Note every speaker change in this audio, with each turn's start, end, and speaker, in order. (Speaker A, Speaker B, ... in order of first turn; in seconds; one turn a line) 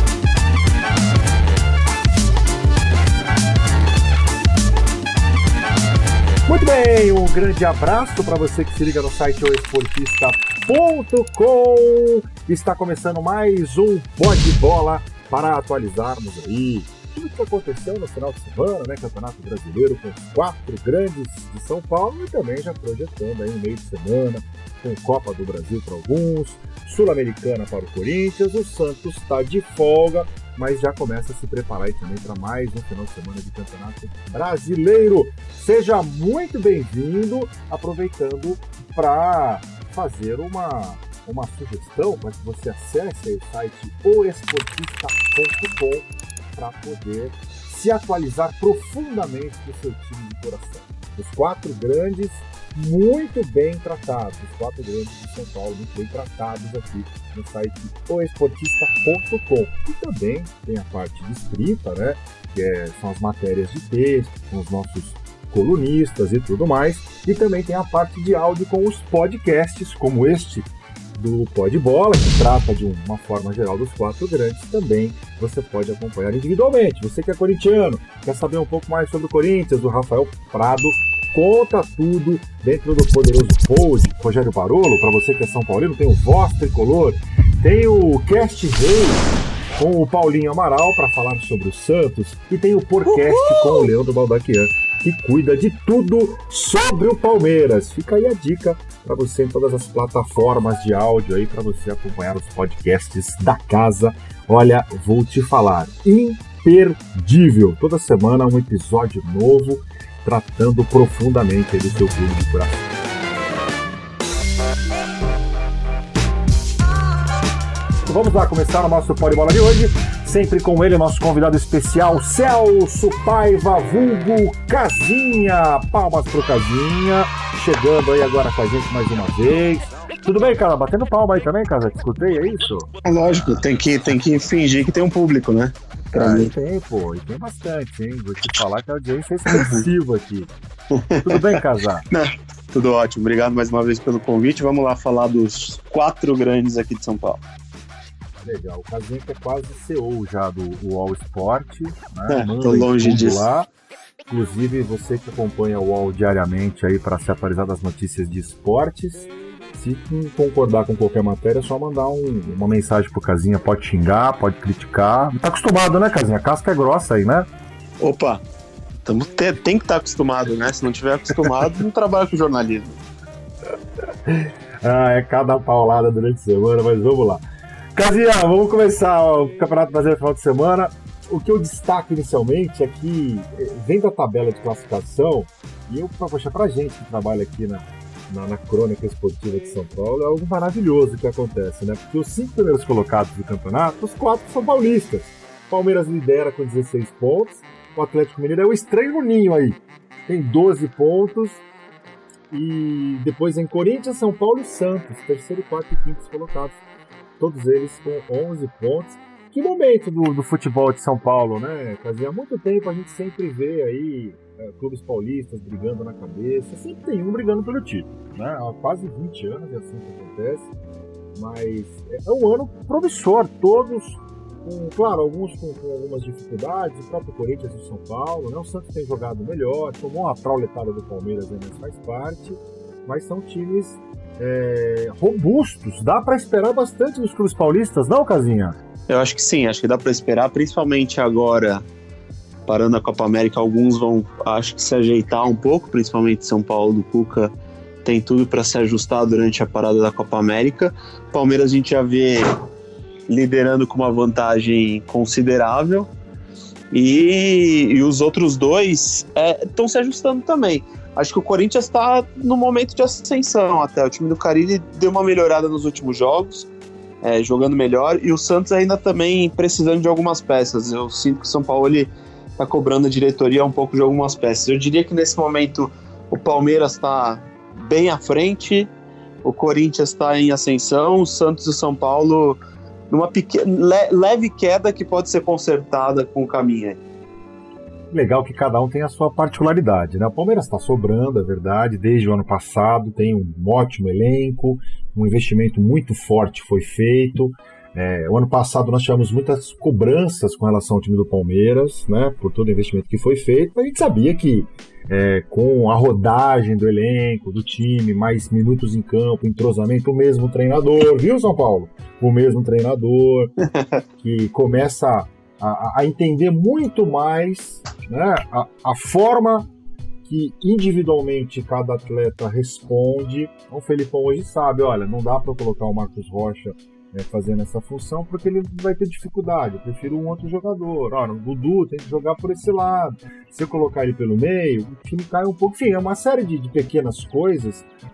Speaker A: 6.5-112.9
Speaker B: 93.1-93.9
Speaker A: 118.1-133.6
Speaker B: 133.0-136.5
Speaker A: 136.1-140.5
Speaker B: 139.5-139.8
Speaker B: 140.9-147.4
Speaker A: 141.2-142.1
Speaker A: 148.4-153.7
Speaker B: 152.3-153.5
Speaker A: 154.3-167.5
Speaker B: 168.0-168.4
Speaker B: 169.0-173.0
Speaker A: 174.3-177.4
Speaker A: 177.9-201.6
Speaker A: 202.5-206.8
Speaker A: 207.4-220.7
Speaker A: 221.3-238.8
Speaker B: 239.1-241.8
Speaker B: 242.7-247.5
Speaker B: 248.0-252.5
Speaker B: 253.3-256.1
Speaker B: 256.9-266.7
Speaker B: 267.2-278.9
Speaker B: 279.4-282.6
Speaker B: 283.1-287.0
Speaker A: 288.1-313.5
Speaker A: 314.2-319.7
Speaker A: 320.2-337.9